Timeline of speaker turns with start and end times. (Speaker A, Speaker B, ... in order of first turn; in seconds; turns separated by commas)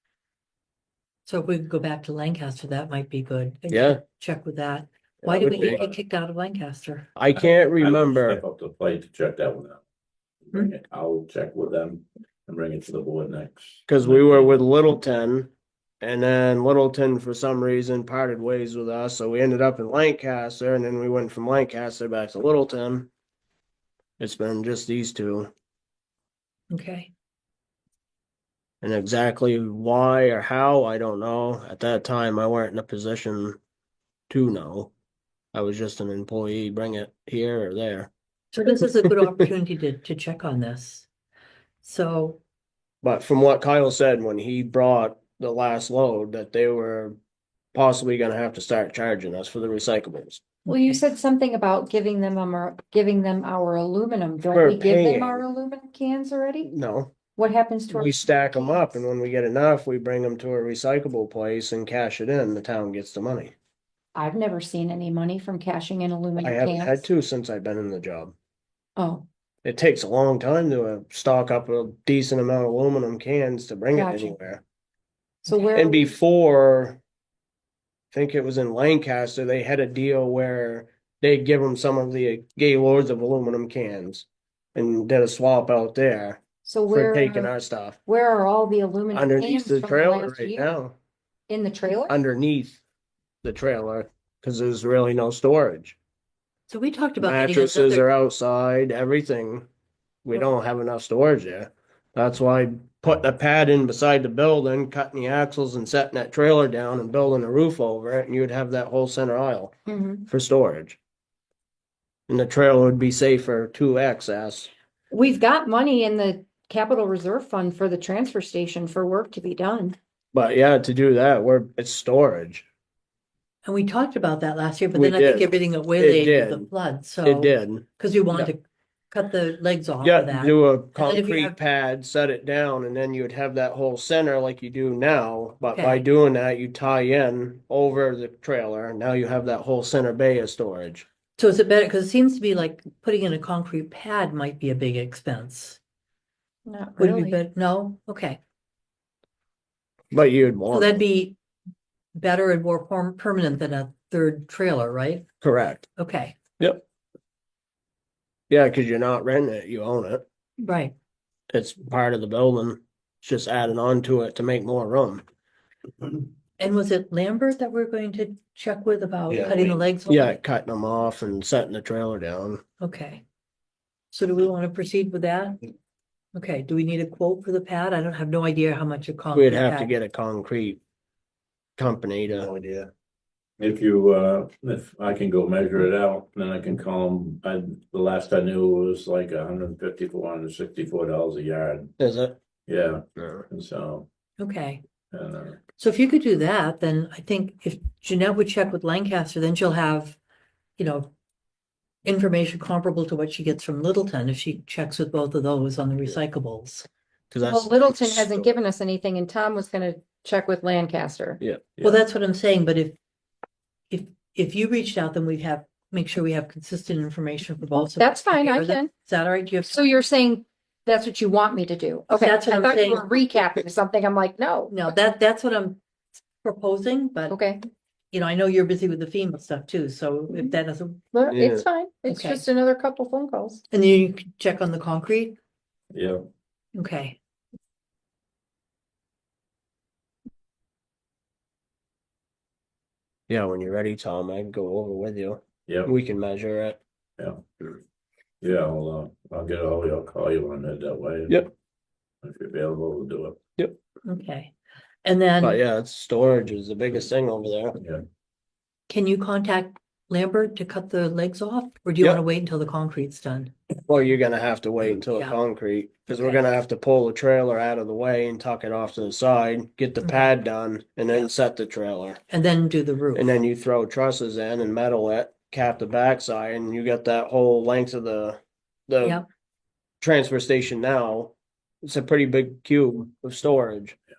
Speaker A: 1.2-7.1, Speaker B: 3.7-4.0, Speaker B: 5.2-5.8, Speaker C: 5.5-5.9, Speaker B: 7.2-8.4, Speaker C: 7.4-9.8, Speaker C: 10.5-13.8, Speaker B: 13.9-23.1, Speaker A: 14.0-14.4, Speaker B: 24.2-25.5, Speaker A: 26.7-27.1, Speaker B: 28.8-33.6, Speaker B: 34.3-34.9, Speaker B: 35.5-38.1, Speaker A: 38.5-41.1, Speaker A: 41.8-42.4, Speaker B: 43.0-47.2, Speaker B: 47.7-50.4, Speaker A: 50.7-51.0, Speaker D: 50.7-56.7, Speaker B: 54.5-55.4, Speaker B: 56.7-57.1, Speaker D: 57.4-58.9, Speaker B: 57.9-63.5, Speaker D: 64.1-67.0, Speaker B: 66.4-68.3, Speaker D: 69.0-69.3, Speaker B: 69.6-74.6, Speaker D: 73.9-74.3, Speaker D: 75.5-76.1, Speaker B: 75.6-77.0, Speaker B: 78.1-88.0, Speaker D: 86.6-87.5, Speaker D: 88.0-90.7, Speaker B: 89.1-90.9, Speaker D: 91.5-92.1, Speaker B: 92.1-92.8, Speaker B: 93.4-96.0, Speaker A: 96.7-98.0, Speaker B: 97.2-99.7, Speaker B: 100.2-109.7, Speaker D: 109.9-110.2, Speaker B: 110.3-111.0, Speaker B: 112.3-114.7, Speaker D: 115.1-120.0, Speaker B: 120.3-122.6, Speaker A: 123.6-131.6, Speaker B: 124.9-126.7, Speaker B: 127.2-128.5, Speaker B: 130.0-141.1, Speaker A: 135.7-136.0, Speaker A: 141.4-145.8, Speaker D: 146.7-147.4, Speaker A: 147.0-148.4, Speaker B: 150.1-151.0, Speaker A: 150.7-151.3, Speaker A: 152.1-155.2, Speaker B: 155.4-155.9, Speaker A: 156.0-156.3, Speaker B: 158.5-160.2, Speaker A: 160.6-160.9, Speaker B: 161.5-165.2, Speaker A: 166.6-170.3, Speaker B: 170.1-172.6, Speaker A: 172.8-173.2, Speaker A: 174.1-175.7, Speaker A: 176.3-179.9, Speaker B: 179.3-180.8, Speaker B: 181.8-182.5, Speaker C: 182.5-182.9, Speaker C: 183.6-191.9, Speaker B: 192.0-192.4, Speaker C: 192.7-194.1, Speaker B: 193.2-193.4, Speaker A: 194.4-194.8, Speaker C: 195.1-195.6, Speaker A: 195.8-200.2, Speaker A: 200.8-201.1, Speaker A: 202.0-206.9, Speaker B: 207.3-208.5, Speaker D: 207.4-211.4, Speaker B: 211.4-211.7, Speaker A: 211.8-213.0, Speaker A: 213.9-219.8, Speaker D: 217.8-218.9, Speaker D: 219.7-224.8, Speaker A: 222.1-223.1, Speaker A: 224.7-225.8, Speaker A: 226.4-227.4, Speaker D: 227.3-227.6, Speaker A: 228.1-231.0, Speaker D: 230.3-230.6, Speaker D: 231.1-233.6, Speaker B: 231.3-231.6, Speaker A: 232.1-232.4, Speaker A: 233.7-235.4, Speaker C: 235.9-236.2, Speaker A: 236.7-237.2, Speaker B: 243.3-246.8, Speaker C: 247.2-247.4, Speaker C: 248.4-251.5, Speaker C: 252.2-253.4, Speaker A: 254.0-254.5, Speaker A: 255.0-255.6, Speaker B: 255.4-257.8, Speaker A: 258.9-263.5, Speaker B: 263.9-272.2, Speaker A: 265.1-265.4, Speaker A: 266.1-266.4, Speaker A: 270.0-270.3, Speaker A: 272.3-273.3, Speaker B: 273.1-279.2, Speaker B: 280.0-284.0